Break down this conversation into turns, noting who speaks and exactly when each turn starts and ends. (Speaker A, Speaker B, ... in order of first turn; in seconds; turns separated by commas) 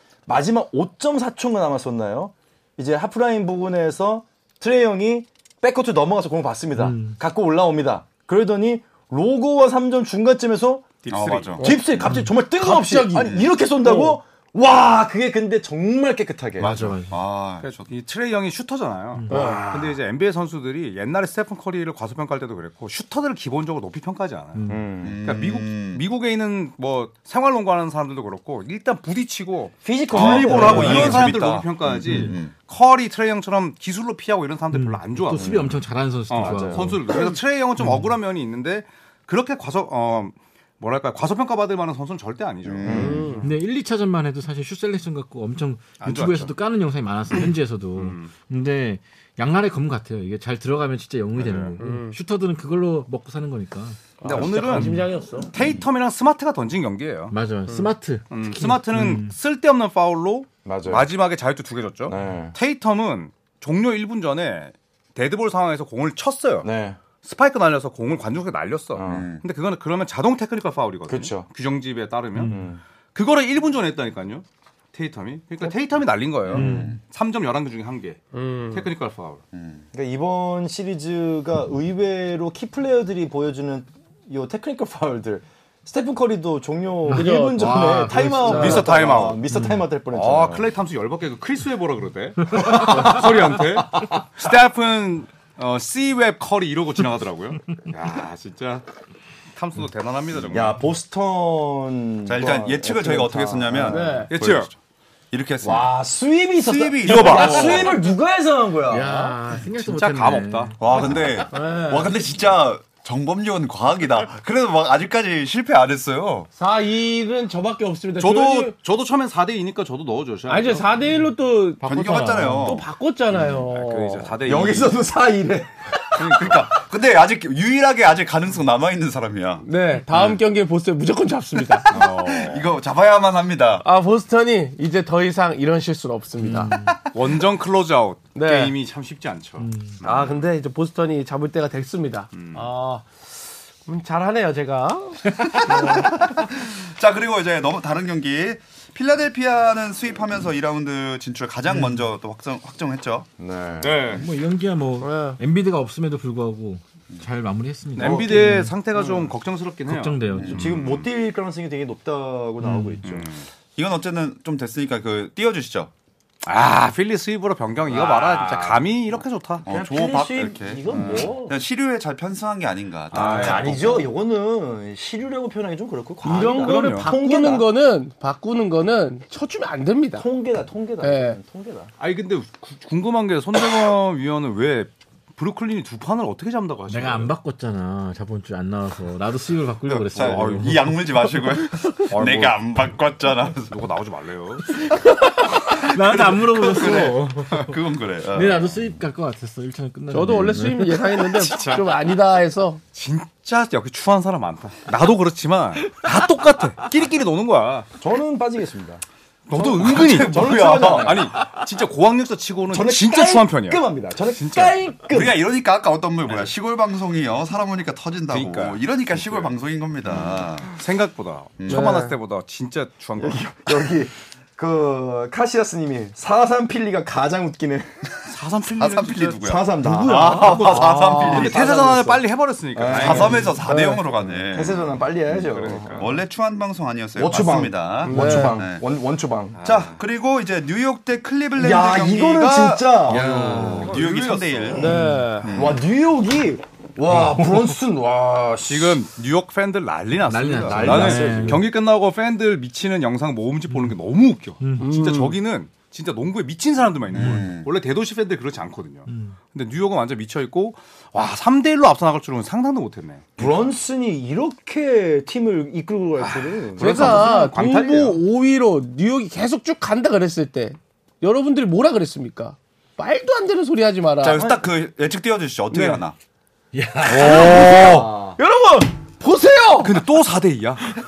Speaker A: 0.3-10.9, Speaker B: 6.8-7.2, Speaker C: 11.0-11.7, Speaker D: 11.1-11.6, Speaker A: 11.6-16.8, Speaker E: 11.6-12.0, Speaker E: 12.5-14.2, Speaker B: 16.6-17.2, Speaker D: 16.6-17.9, Speaker C: 17.6-35.6, Speaker A: 19.3-20.0, Speaker E: 19.3-19.6, Speaker B: 24.6-24.9, Speaker A: 24.7-25.2, Speaker D: 25.0-26.0, Speaker A: 29.8-31.3, Speaker D: 30.1-32.5, Speaker B: 30.5-31.1, Speaker B: 32.1-32.4, Speaker B: 34.7-37.0, Speaker A: 35.4-35.8, Speaker C: 36.3-43.4, Speaker A: 36.4-37.1, Speaker B: 37.8-38.1, Speaker D: 42.6-43.3, Speaker A: 42.9-43.3, Speaker E: 42.9-43.5, Speaker B: 43.4-55.0, Speaker C: 46.0-46.5, Speaker C: 48.0-48.3, Speaker C: 51.4-51.8, Speaker E: 51.8-52.2, Speaker E: 54.2-55.5, Speaker C: 54.2-57.4, Speaker B: 57.3-59.3, Speaker C: 58.3-66.7, Speaker A: 60.6-61.1, Speaker A: 62.1-62.6, Speaker A: 66.6-67.0, Speaker C: 67.2-79.4, Speaker A: 69.0-69.3, Speaker D: 69.0-69.4, Speaker A: 71.1-71.5, Speaker B: 72.3-72.7, Speaker A: 72.5-72.8, Speaker D: 76.5-77.0, Speaker B: 76.5-77.0, Speaker E: 78.3-78.9, Speaker D: 79.5-79.8, Speaker A: 79.9-90.7, Speaker B: 87.1-88.8, Speaker E: 87.1-89.3, Speaker C: 88.4-89.4, Speaker B: 89.5-89.8, Speaker C: 90.1-98.8, Speaker B: 92.5-92.9, Speaker A: 92.6-94.2, Speaker C: 99.5-100.8, Speaker A: 100.5-104.2, Speaker D: 102.3-104.8, Speaker E: 103.8-104.3, Speaker C: 104.3-104.7, Speaker D: 105.3-105.9, Speaker A: 105.6-109.3, Speaker D: 106.6-108.0, Speaker C: 107.0-108.0, Speaker E: 107.3-107.6, Speaker B: 108.9-111.4, Speaker C: 109.8-110.8, Speaker D: 110.8-116.5, Speaker E: 111.5-112.1, Speaker E: 116.5-118.8, Speaker C: 118.2-120.9, Speaker E: 120.5-121.8, Speaker B: 121.8-122.8, Speaker D: 121.8-122.9, Speaker E: 122.6-124.4, Speaker C: 123.4-125.1, Speaker A: 124.4-126.6, Speaker C: 126.2-126.8, Speaker D: 126.3-130.4, Speaker E: 129.6-132.0, Speaker D: 131.7-133.8, Speaker C: 131.9-132.7, Speaker E: 133.8-136.8, Speaker B: 136.4-136.9, Speaker D: 136.7-137.2, Speaker C: 137.1-140.4, Speaker E: 138.4-138.8, Speaker B: 139.6-140.0, Speaker E: 140.0-143.1, Speaker C: 142.3-142.7, Speaker E: 143.9-146.3, Speaker D: 145.5-153.3, Speaker B: 151.7-152.0, Speaker A: 153.4-154.0, Speaker C: 153.8-154.2, Speaker B: 154.1-158.7, Speaker E: 155.0-155.4, Speaker C: 158.0-160.4, Speaker A: 158.0-159.3, Speaker B: 159.9-160.7, Speaker D: 160.4-161.1, Speaker A: 160.5-163.3, Speaker B: 162.6-163.0, Speaker C: 163.0-163.5, Speaker D: 163.8-165.9, Speaker C: 166.4-169.6, Speaker A: 167.9-168.8, Speaker D: 169.6-174.1, Speaker A: 169.7-171.6, Speaker C: 170.9-171.3, Speaker C: 173.1-174.1, Speaker A: 173.1-177.7, Speaker E: 176.2-180.3, Speaker C: 176.3-177.1, Speaker A: 180.2-181.9, Speaker E: 181.0-181.4, Speaker C: 182.0-187.3, Speaker B: 186.9-191.3, Speaker D: 189.9-193.8, Speaker C: 190.2-190.9, Speaker C: 192.1-192.6, Speaker C: 193.7-194.8, Speaker B: 195.6-197.8, Speaker D: 195.7-198.9, Speaker B: 198.3-201.1, Speaker E: 200.1-202.8, Speaker C: 201.3-201.9, Speaker C: 202.9-207.9, Speaker A: 208.0-209.0, Speaker C: 209.5-214.8, Speaker D: 209.5-211.3, Speaker A: 209.9-211.3, Speaker A: 212.7-215.4, Speaker D: 215.1-220.8, Speaker C: 218.3-219.5, Speaker C: 220.1-223.7, Speaker D: 221.6-222.0, Speaker E: 221.7-222.2, Speaker A: 223.2-227.9, Speaker C: 228.2-233.6, Speaker D: 228.8-231.6, Speaker A: 229.4-233.7, Speaker D: 233.0-238.8, Speaker E: 233.7-234.1, Speaker A: 234.5-236.2, Speaker C: 235.4-236.1, Speaker A: 237.2-239.6, Speaker E: 238.0-238.6, Speaker C: 239.6-240.0, Speaker D: 239.6-245.8, Speaker A: 241.6-243.8, Speaker C: 243.1-244.9, Speaker B: 243.6-243.8, Speaker E: 244.8-245.5, Speaker B: 244.8-245.3, Speaker A: 245.5-249.0, Speaker C: 248.7-263.3, Speaker B: 250.3-251.6, Speaker A: 250.6-251.7, Speaker B: 253.7-254.0, Speaker B: 254.6-254.9, Speaker E: 254.8-255.4, Speaker D: 257.2-257.7, Speaker B: 259.1-259.4, Speaker D: 263.4-263.7, Speaker A: 263.4-267.3, Speaker C: 266.2-268.2, Speaker E: 266.8-274.5, Speaker D: 274.2-276.2, Speaker A: 274.3-274.6, Speaker E: 275.7-276.0, Speaker B: 276.7-277.5, Speaker E: 277.1-279.9, Speaker A: 277.1-278.4, Speaker C: 277.2-278.1, Speaker C: 279.8-280.9